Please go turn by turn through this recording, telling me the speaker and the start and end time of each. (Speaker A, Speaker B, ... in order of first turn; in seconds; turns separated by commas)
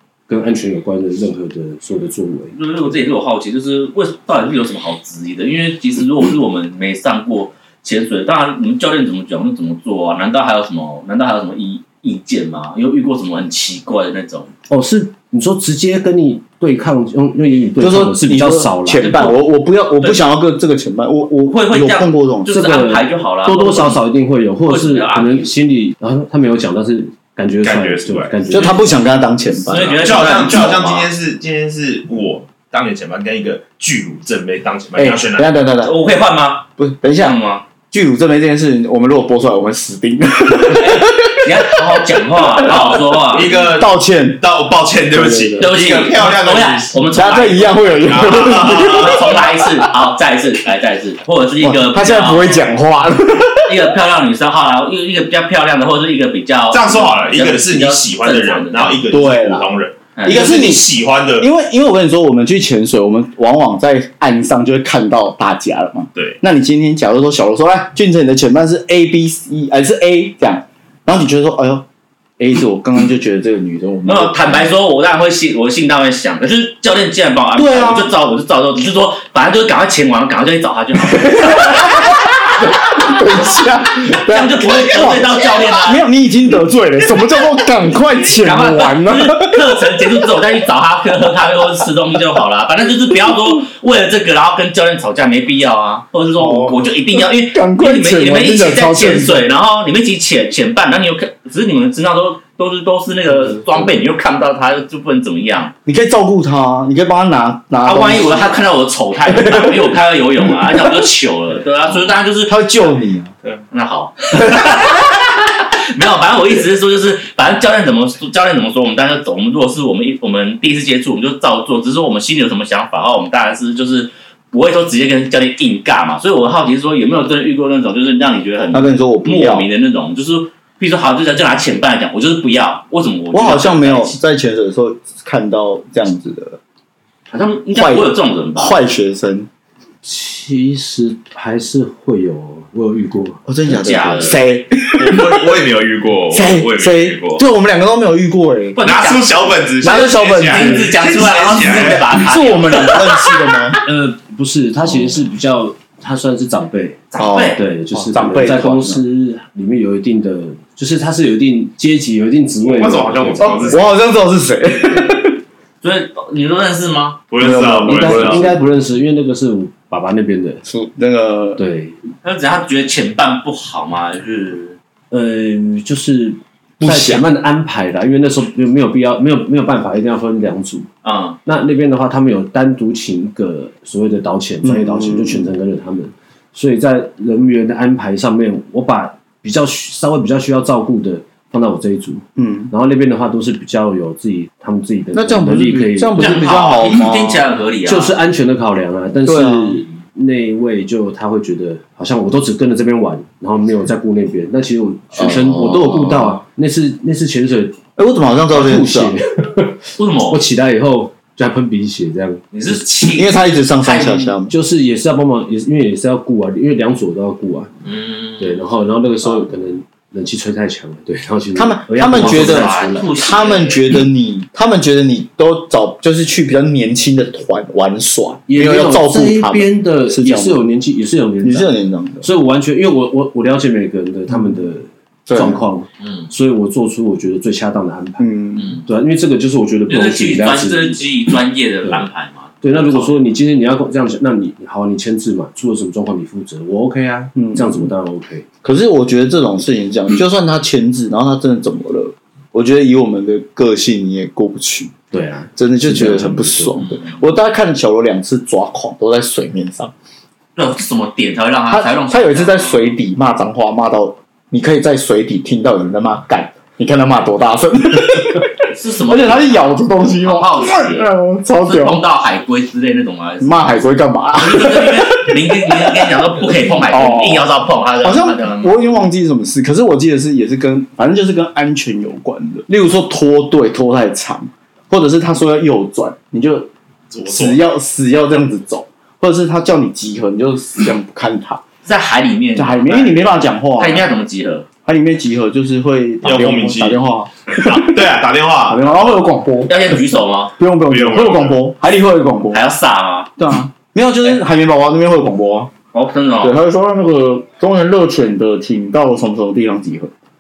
Speaker A: 0.3-2.9, Speaker B: 2.6-14.5, Speaker A: 14.7-19.3, Speaker C: 17.8-22.6, Speaker B: 19.0-19.4, Speaker B: 21.5-24.0, Speaker A: 22.5-29.1, Speaker B: 24.7-25.5, Speaker D: 27.6-28.6, Speaker C: 28.5-30.7, Speaker B: 29.7-31.1, Speaker D: 29.7-35.5, Speaker C: 35.0-36.0, Speaker B: 35.8-37.6, Speaker C: 36.8-41.4, Speaker B: 40.7-43.5, Speaker D: 42.9-47.0, Speaker C: 43.4-44.4, Speaker A: 45.1-45.6, Speaker B: 45.6-52.7, Speaker C: 47.1-49.4, Speaker D: 47.8-49.5, Speaker C: 51.6-53.8, Speaker B: 53.6-59.0, Speaker D: 56.7-61.5, Speaker C: 59.1-60.9, Speaker B: 60.2-60.5, Speaker C: 61.4-71.8, Speaker C: 72.4-74.7, Speaker B: 74.0-82.1, Speaker C: 77.6-78.1, Speaker C: 81.1-89.7, Speaker B: 84.1-86.0, Speaker B: 88.4-105.7, Speaker C: 96.4-99.5, Speaker C: 103.6-103.9, Speaker C: 105.8-108.6, Speaker B: 107.8-113.0, Speaker C: 109.3-109.9, Speaker C: 112.4-113.3, Speaker B: 113.7-134.2, Speaker C: 114.5-114.8, Speaker C: 128.7-129.7, Speaker C: 133.3-136.6, Speaker B: 137.3-138.8, Speaker C: 137.8-139.5, Speaker A: 140.0-143.4, Speaker C: 143.5-145.4, Speaker B: 143.7-144.4, Speaker D: 145.0-147.4, Speaker C: 146.3-148.8, Speaker B: 148.8-153.7, Speaker D: 148.8-152.2, Speaker C: 149.8-151.0, Speaker C: 151.5-153.8, Speaker A: 153.8-163.9, Speaker B: 157.1-157.6, Speaker C: 157.2-159.0, Speaker D: 162.6-163.9, Speaker C: 163.4-165.4, Speaker B: 165.8-167.2, Speaker D: 167.3-168.5, Speaker C: 167.4-168.6, Speaker A: 167.8-170.6, Speaker C: 170.7-171.6, Speaker A: 171.6-172.0, Speaker B: 172.2-174.8, Speaker A: 175.1-180.9, Speaker C: 176.8-177.3, Speaker B: 181.0-181.4, Speaker A: 181.5-196.5, Speaker C: 184.6-185.5, Speaker C: 192.4-192.7, Speaker C: 195.1-197.5, Speaker B: 196.2-198.2, Speaker A: 197.9-207.8, Speaker C: 199.3-199.8, Speaker C: 205.2-206.4, Speaker C: 208.0-209.1, Speaker A: 208.5-212.8, Speaker B: 210.0-210.4, Speaker B: 212.5-214.4, Speaker C: 213.1-214.5, Speaker A: 214.5-217.7, Speaker B: 217.8-218.6, Speaker A: 218.4-223.1, Speaker C: 221.6-230.6, Speaker B: 222.1-223.9, Speaker A: 228.5-231.7, Speaker C: 231.4-232.3, Speaker A: 232.2-238.3, Speaker C: 235.3-235.6, Speaker B: 236.0-236.3, Speaker C: 238.2-238.8, Speaker B: 238.6-238.8, Speaker A: 238.8-241.1, Speaker B: 239.9-243.1, Speaker A: 242.6-248.5, Speaker C: 247.3-247.9, Speaker C: 248.6-254.9, Speaker A: 255.1-256.8, Speaker C: 255.6-259.9, Speaker B: 256.8-257.2, Speaker B: 260.6-263.0, Speaker C: 261.7-272.0, Speaker B: 268.7-271.1, Speaker B: 271.6-278.9, Speaker C: 273.4-276.1, Speaker C: 276.6-277.5, Speaker C: 278.0-286.7, Speaker D: 287.1-287.6, Speaker C: 287.3-291.6, Speaker B: 291.9-294.7, Speaker C: 292.6-294.1, Speaker C: 294.9-298.0, Speaker D: 296.2-298.9, Speaker C: 298.7-302.6, Speaker B: 298.9-300.6, Speaker D: 300.9-301.6, Speaker B: 302.5-303.3, Speaker C: 303.4-305.7, Speaker B: 305.9-306.6, Speaker C: 306.4-310.1